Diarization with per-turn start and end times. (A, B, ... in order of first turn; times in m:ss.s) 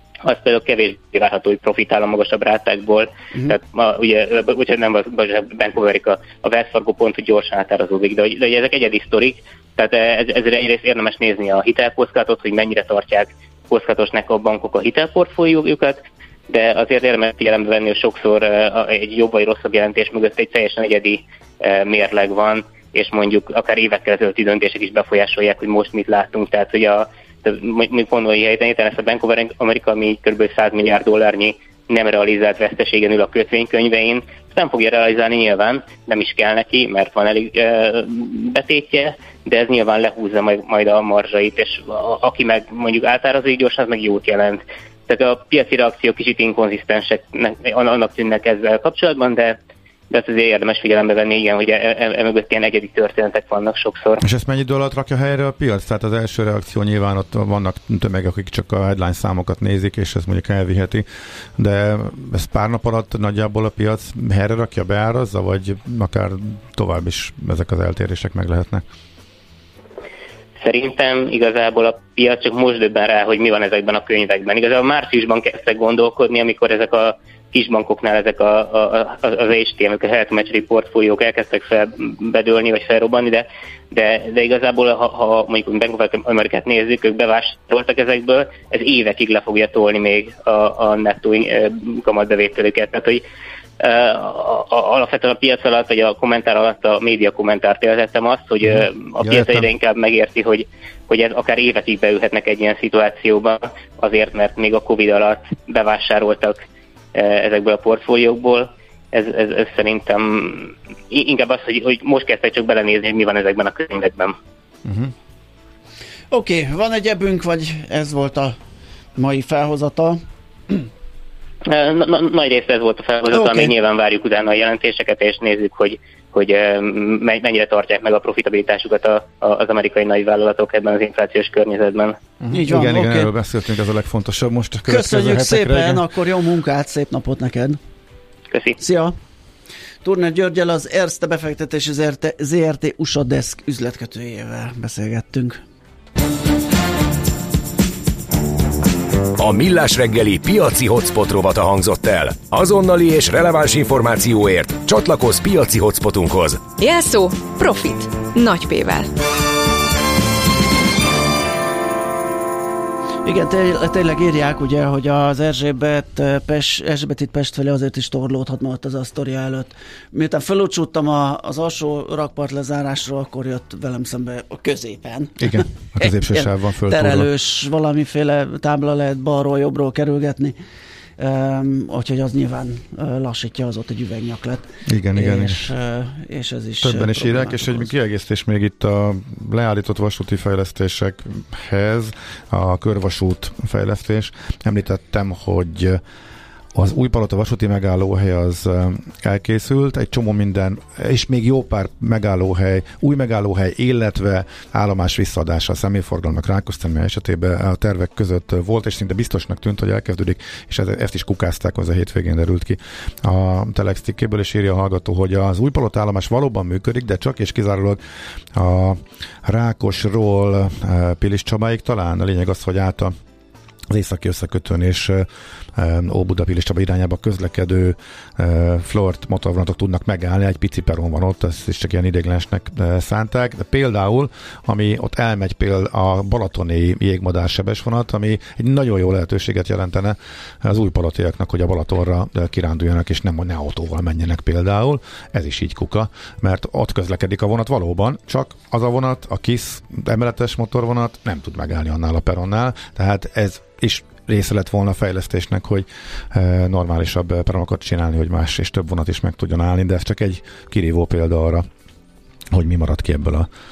0:00.2-0:49.6 A
0:50.1-0:54.2 A
0:54.2-1:01.0 B
1:01.6-1:08.8 B
1:10.6-1:33.2 A
1:33.8-1:46.6 A
1:39.2-1:39.7 B
1:47.1-1:54.4 A
1:54.9-1:55.1 B
1:56.3-1:58.6 C
1:59.2-2:00.8 C
2:01.7-2:12.2 A
2:03.3-2:03.7 C
2:12.4-2:16.0 B
2:12.5-2:13.3 C
2:14.9-2:17.8 C
2:18.5-2:18.8 A
2:18.8-2:19.2 C
2:20.0-2:25.6 C
2:29.4-2:36.7 D
2:36.8-2:39.1 E
2:43.2-3:00.6 C
2:55.4-2:57.3 B
3:01.2-3:07.9 C
3:04.9-3:05.7 B
3:06.8-3:16.0 B
3:16.7-3:38.0 B
3:38.5-3:43.2 B
3:43.9-4:21.7 B
4:22.5-4:23.5 B